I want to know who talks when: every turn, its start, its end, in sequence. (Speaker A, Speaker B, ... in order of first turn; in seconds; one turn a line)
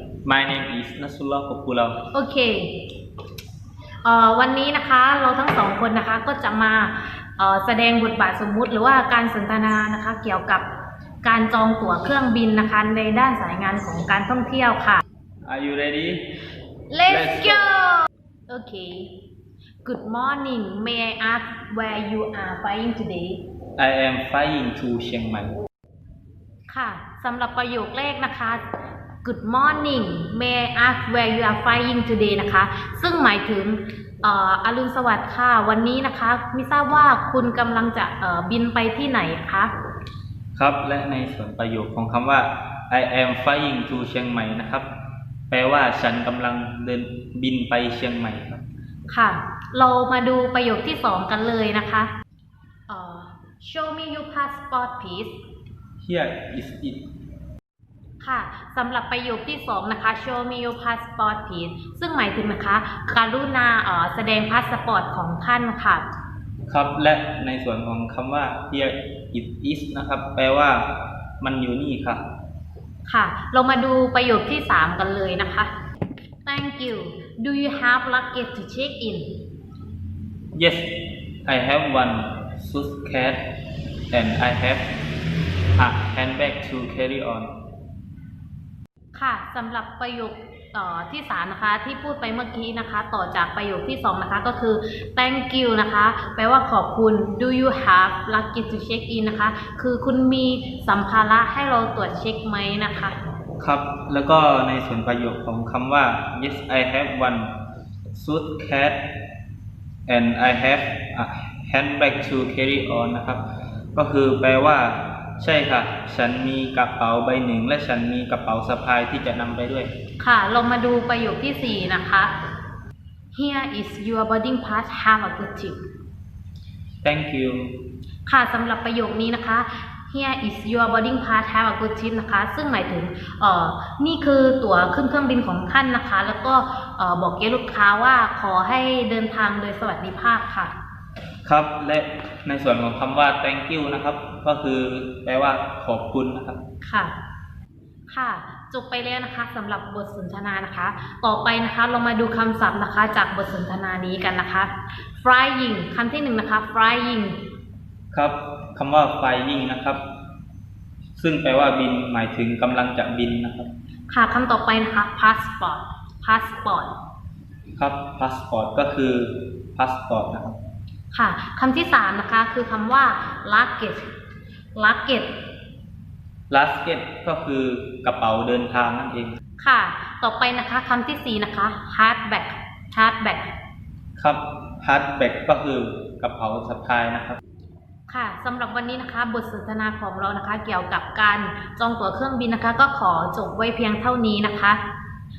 Speaker A: 0.2-2.0
Speaker B: 2.1-2.7
Speaker B: 4.0-10.6
Speaker B: 11.2-15.0
Speaker A: 15.4-16.4
Speaker B: 16.9-19.1
Speaker A: 17.1-17.7
Speaker B: 19.8-23.4
Speaker A: 23.8-25.5
Speaker B: 26.7-28.6
Speaker B: 29.2-39.7
Speaker A: 40.5-44.9
Speaker A: 45.5-48.6
Speaker B: 49.1-52.1
Speaker B: 52.9-55.4
Speaker A: 56.0-57.0
Speaker B: 58.2-66.0
Speaker A: 66.7-70.9
Speaker A: 71.4-72.2
Speaker B: 73.0-75.7
Speaker B: 76.5-79.3
Speaker A: 80.5-80.9
Speaker A: 81.4-83.4
Speaker A: 84.1-84.9
Speaker A: 85.8-87.5
Speaker B: 89.1-103.1
Speaker A: 103.6-107.5
Speaker A: 108.1-109.0
Speaker A: 110.1-113.4
Speaker A: 113.9-119.9
Speaker B: 120.2-122.3
Speaker B: 123.3-125.8
Speaker A: 127.0-127.7
Speaker B: 128.2-140.7
Speaker A: 141.4-146.6
Speaker B: 146.8-147.1
Speaker B: 148.1-157.3
Speaker A: 158.1-160.0
Speaker A: 161.2-163.7
Speaker B: 164.1-166.9
Speaker A: 167.8-170.6
Speaker B: 171.1-174.1
Speaker B: 174.8-175.3
Speaker A: 176.5-179.4
Speaker B: 179.6-183.5
Speaker A: 184.2-187.4
Speaker B: 188.1-194.8